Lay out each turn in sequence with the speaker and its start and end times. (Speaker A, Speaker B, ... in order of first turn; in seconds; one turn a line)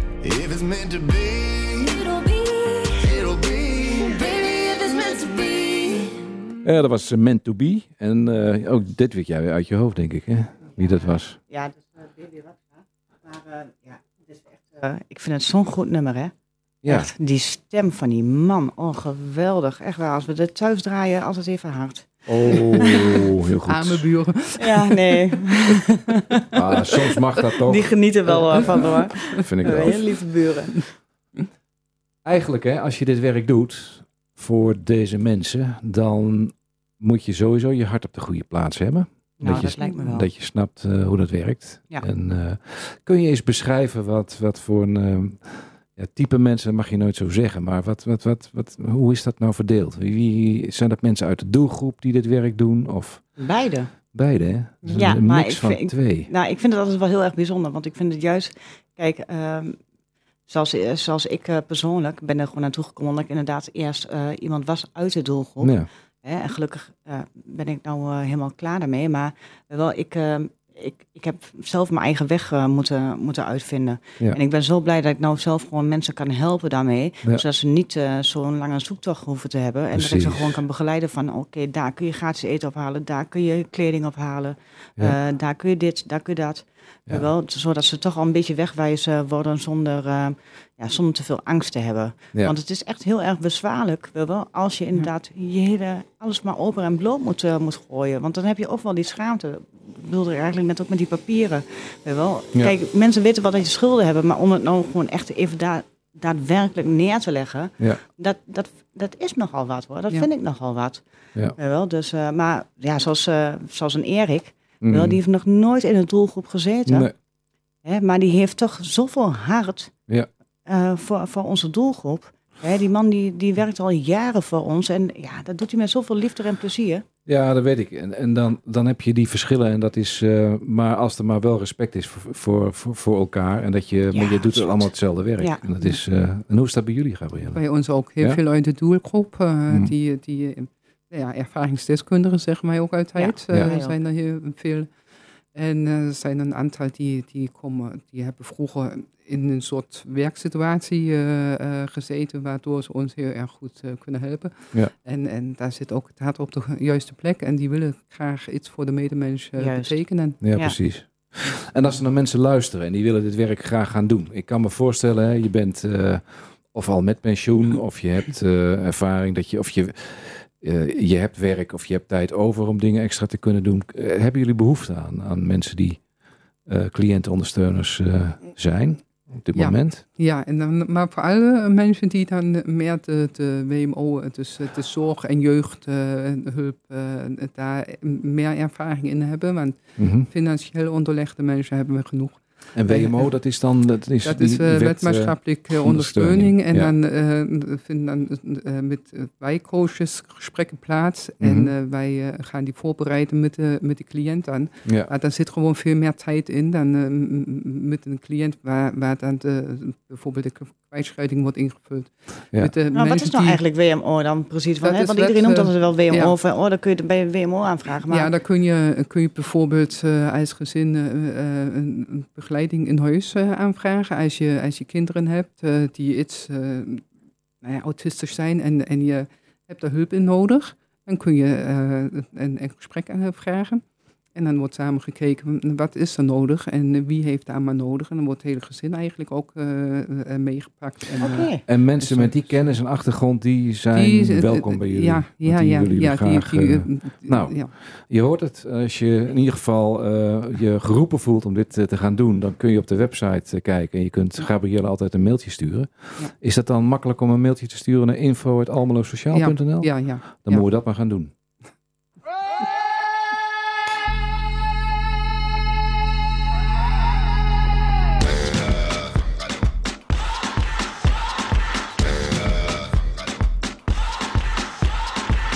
Speaker A: 0.2-2.0
Speaker B: 1.9-3.0
Speaker A: 2.9-6.0
Speaker B: 4.2-6.0
Speaker C: 6.6-11.4
Speaker D: 10.7-16.3
Speaker C: 16.8-17.1
Speaker D: 16.9-23.2
Speaker C: 22.3-24.1
Speaker E: 23.7-25.8
Speaker D: 24.6-26.8
Speaker C: 26.5-30.1
Speaker D: 27.6-30.9
Speaker C: 32.2-53.4
Speaker D: 39.4-40.3
Speaker E: 39.4-40.1
Speaker D: 53.4-53.9
Speaker C: 54.1-56.3
Speaker D: 54.9-59.8
Speaker D: 60.5-111.0
Speaker C: 65.6-65.9
Speaker C: 79.9-80.6
Speaker D: 111.6-117.1
Speaker C: 114.8-115.2
Speaker C: 116.9-117.1
Speaker D: 117.8-119.9
Speaker D: 120.7-127.0
Speaker C: 127.3-137.6
Speaker D: 134.1-135.6
Speaker E: 137.5-144.9
Speaker D: 143.2-143.9
Speaker E: 145.5-160.4
Speaker D: 159.6-160.8
Speaker C: 160.4-176.1
Speaker C: 176.7-180.0
Speaker E: 179.6-193.3
Speaker C: 190.0-190.3
Speaker C: 192.8-196.9
Speaker E: 194.2-213.6
Speaker C: 201.4-201.7
Speaker C: 204.8-205.1
Speaker D: 212.9-218.3
Speaker E: 214.8-216.4
Speaker E: 218.1-227.1
Speaker E: 227.6-233.8
Speaker E: 234.3-242.4
Speaker D: 241.2-241.6
Speaker C: 241.7-261.3
Speaker E: 243.9-247.7
Speaker E: 259.3-260.7